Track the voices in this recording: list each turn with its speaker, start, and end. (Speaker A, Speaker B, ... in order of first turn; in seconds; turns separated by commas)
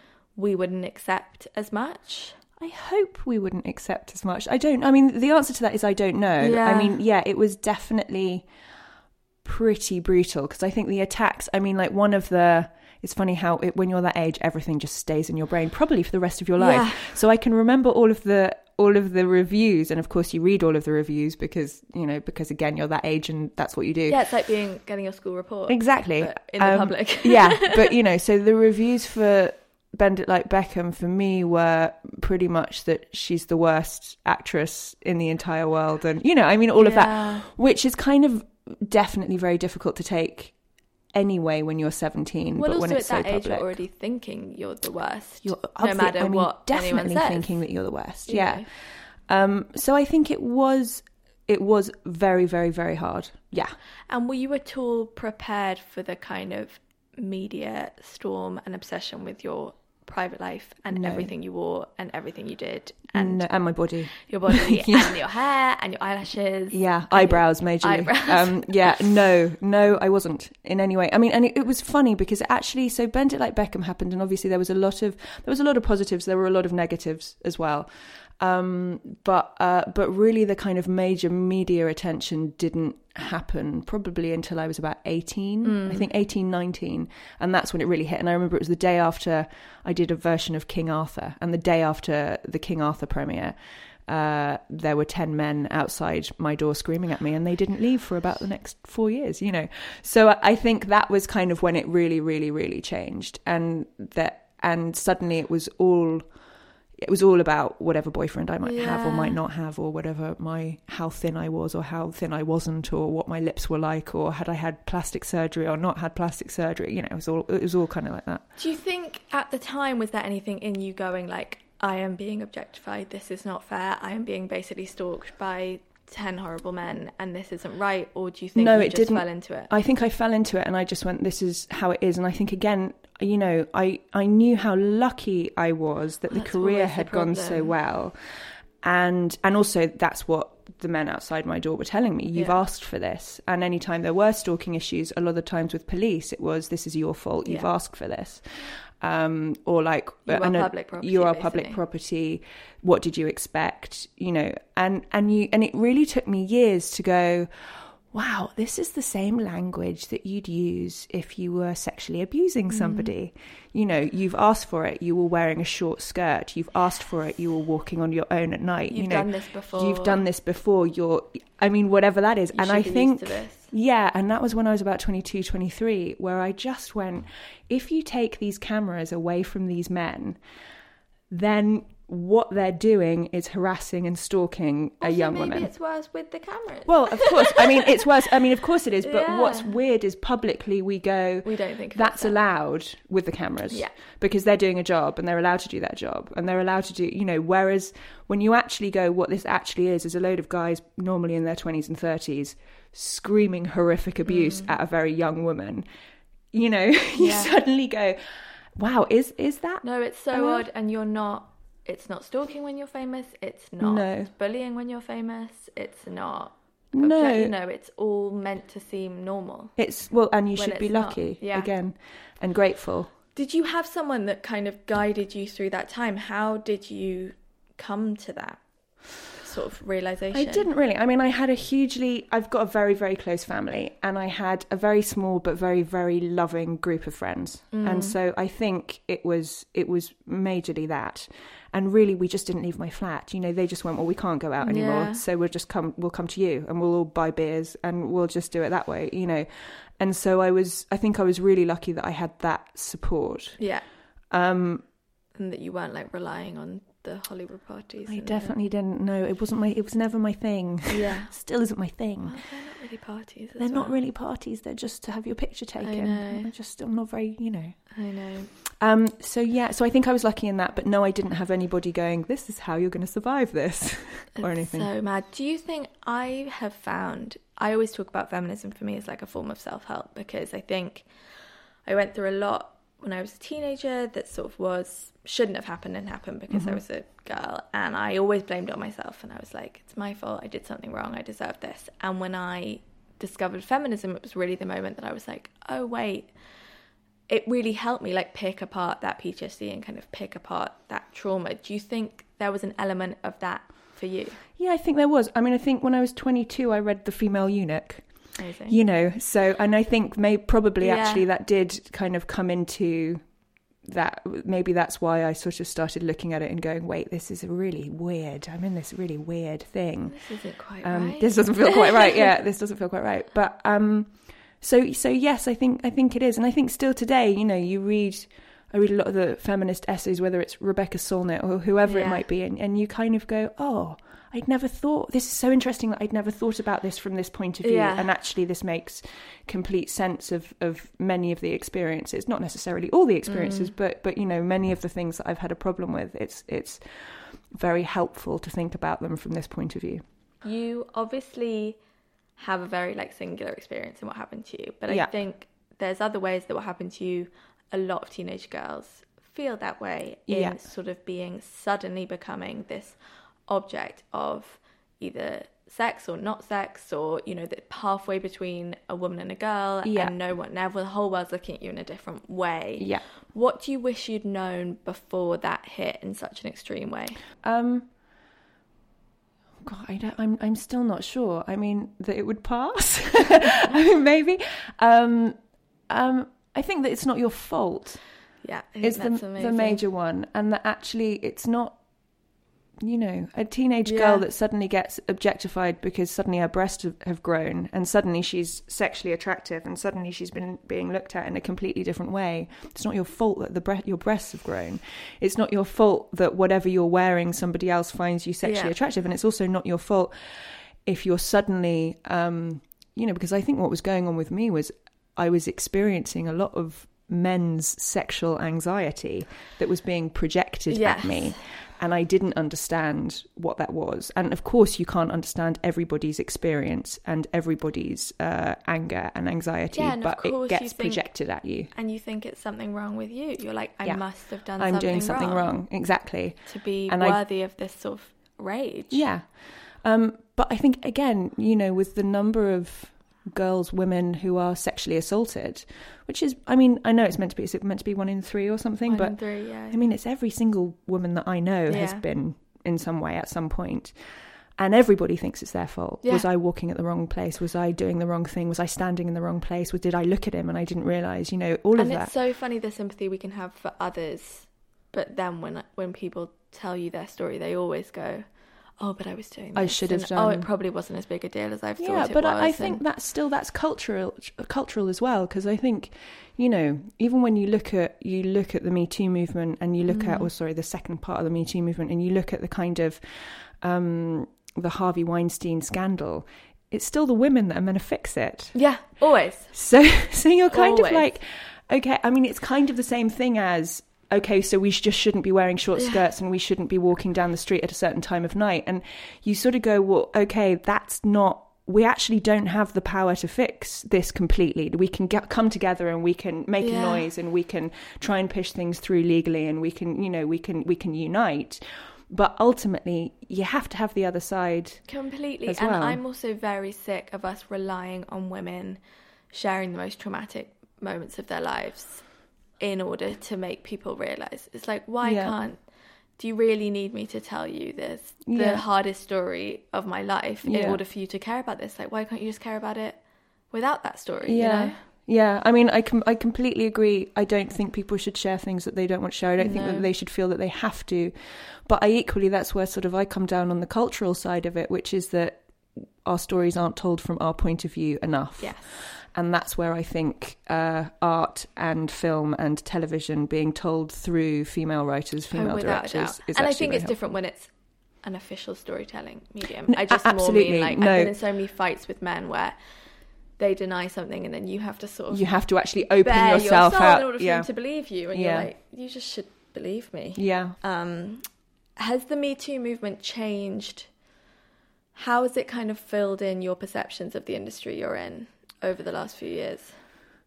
Speaker A: 0.3-2.4, Speaker B: 2.6-8.5, Speaker A: 6.4-7.0, Speaker B: 9.4-24.2, Speaker A: 16.6-17.2, Speaker A: 24.1-27.9, Speaker B: 25.7-40.6, Speaker A: 36.7-37.5, Speaker B: 41.1-43.8, Speaker A: 42.5-47.6, Speaker B: 45.4-53.8, Speaker A: 48.2-48.7, Speaker A: 54.1-69.0, Speaker B: 60.9-61.3, Speaker B: 63.1-65.2, Speaker B: 66.7-106.4, Speaker A: 85.6-86.1, Speaker B: 107.0-118.5, Speaker A: 108.6-109.4, Speaker A: 118.5-129.7, Speaker B: 128.5-180.4, Speaker A: 136.3-137.7, Speaker A: 142.3-142.6, Speaker A: 147.4-147.7, Speaker A: 150.3-151.8, Speaker A: 162.7-163.1, Speaker A: 168.9-170.2, Speaker A: 172.5-173.7, Speaker B: 181.3-185.7, Speaker A: 185.0-187.8, Speaker B: 186.8-205.8, Speaker A: 189.0-189.8, Speaker A: 191.4-192.4, Speaker A: 204.2-204.7, Speaker B: 206.5-210.7, Speaker A: 207.2-207.5, Speaker A: 209.8-219.8, Speaker B: 213.8-214.3, Speaker B: 216.9-217.5, Speaker B: 219.8-223.1, Speaker A: 220.5-221.7, Speaker A: 223.3-228.6, Speaker A: 229.2-230.7, Speaker B: 230.3-253.6, Speaker A: 237.7-238.2, Speaker A: 244.6-245.2, Speaker A: 253.6-253.9, Speaker B: 254.3-254.9, Speaker A: 255.3-258.5, Speaker B: 258.1-262.6, Speaker A: 260.9-261.5, Speaker A: 262.2-264.0, Speaker B: 263.6-274.9, Speaker A: 265.8-266.5, Speaker A: 267.9-268.5, Speaker A: 274.4-281.3, Speaker A: 281.8-296.4, Speaker B: 286.5-286.8, Speaker A: 297.3-304.4, Speaker B: 304.6-313.3, Speaker A: 308.4-308.8, Speaker A: 310.8-311.3, Speaker B: 313.8-350.0, Speaker A: 320.1-322.2, Speaker A: 331.8-332.3, Speaker A: 337.6-338.1, Speaker A: 343.3-343.7, Speaker A: 350.4-351.8, Speaker A: 352.4-377.2, Speaker B: 360.3-360.6, Speaker B: 369.8-370.1, Speaker B: 372.8-373.0, Speaker B: 377.4-377.9, Speaker B: 379.6-388.3, Speaker A: 388.4-389.8, Speaker B: 388.8-391.8, Speaker B: 392.8-431.7, Speaker A: 393.9-394.2, Speaker A: 408.4-408.7, Speaker A: 420.7-421.4, Speaker A: 429.7-439.1, Speaker B: 433.8-437.2, Speaker B: 438.9-462.1, Speaker A: 448.9-449.9, Speaker A: 451.7-452.0, Speaker A: 456.0-456.3, Speaker A: 461.8-472.8, Speaker B: 469.5-470.5, Speaker B: 471.8-488.9, Speaker A: 479.9-480.3, Speaker A: 488.5-489.9, Speaker B: 489.5-516.0, Speaker A: 490.5-491.1, Speaker A: 506.6-507.1, Speaker A: 514.9-534.8, Speaker B: 525.0-525.4, Speaker B: 528.2-528.6, Speaker B: 530.4-530.8, Speaker B: 534.2-557.0, Speaker A: 539.4-539.9, Speaker A: 548.4-548.9, Speaker A: 555.3-574.0, Speaker B: 559.7-561.2, Speaker B: 565.1-568.5, Speaker B: 570.1-570.6, Speaker A: 574.9-579.9